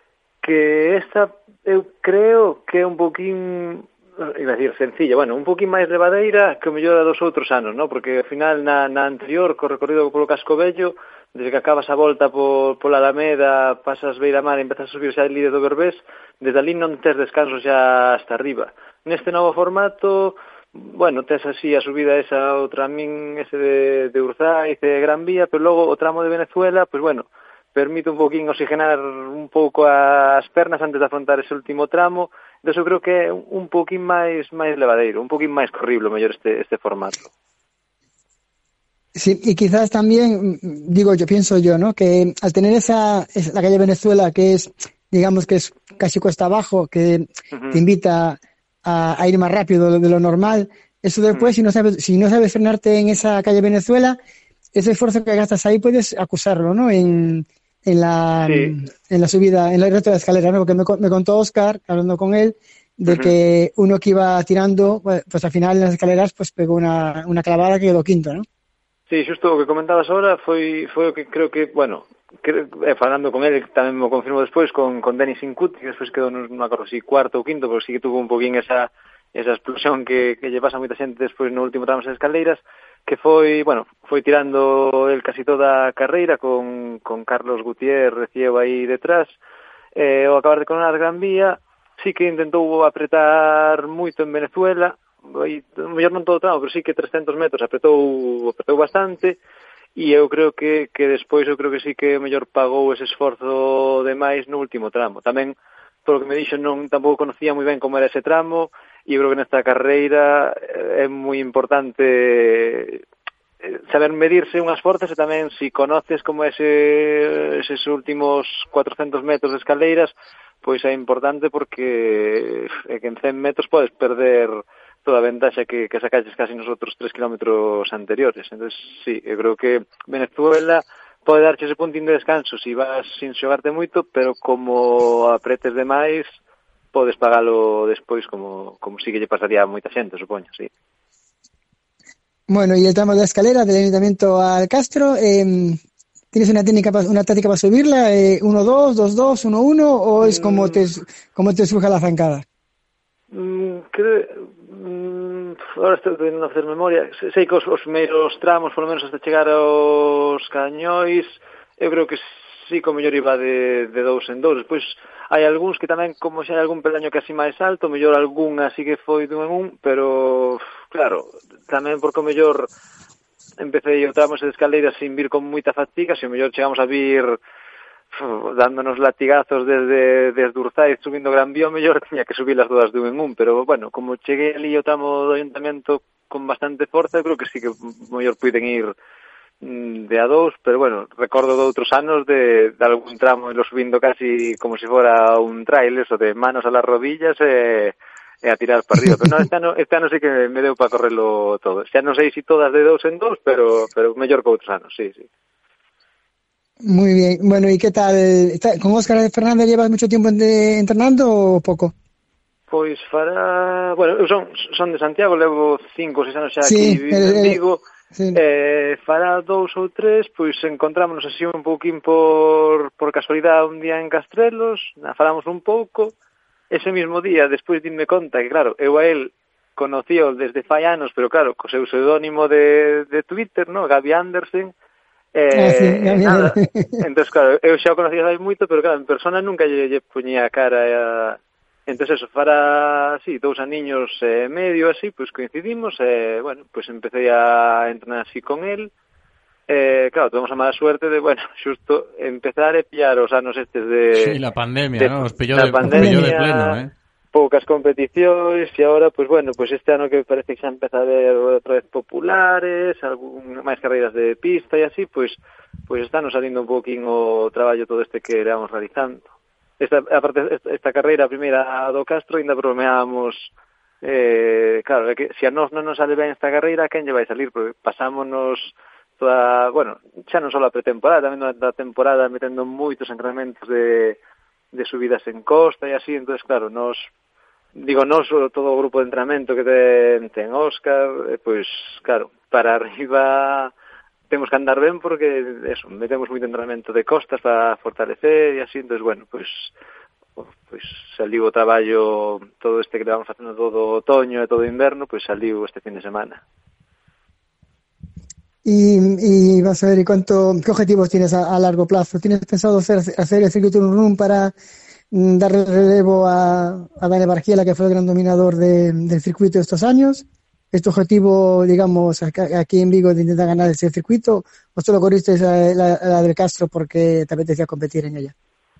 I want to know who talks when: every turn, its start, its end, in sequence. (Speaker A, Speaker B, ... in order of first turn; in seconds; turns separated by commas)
Speaker A: 0.4-37.3, Speaker B: 39.1-54.2, Speaker A: 47.5-47.8, Speaker B: 54.7-68.4, Speaker A: 58.4-58.7, Speaker A: 63.1-63.3, Speaker A: 69.1-89.4, Speaker A: 89.9-99.4, Speaker A: 100.0-113.0, Speaker A: 113.6-136.4, Speaker A: 136.9-140.7, Speaker B: 142.5-145.8, Speaker B: 146.3-152.4, Speaker A: 150.2-150.8, Speaker A: 153.3-172.7, Speaker A: 173.6-177.4, Speaker A: 178.1-188.9, Speaker A: 189.6-205.3, Speaker B: 199.0-199.4, Speaker B: 206.8-211.9, Speaker A: 212.7-217.8, Speaker B: 216.6-217.6, Speaker B: 218.1-218.4, Speaker A: 218.3-226.1, Speaker A: 226.7-234.7, Speaker A: 235.3-248.9, Speaker B: 235.5-237.0, Speaker A: 249.7-254.4, Speaker C: 254.1-256.9, Speaker A: 255.0-256.8, Speaker B: 255.8-256.3, Speaker A: 257.3-269.2, Speaker A: 269.8-284.2, Speaker A: 284.7-287.1, Speaker A: 287.7-293.7, Speaker A: 294.3-299.7, Speaker A: 300.4-306.4, Speaker B: 308.6-314.5, Speaker B: 315.1-328.3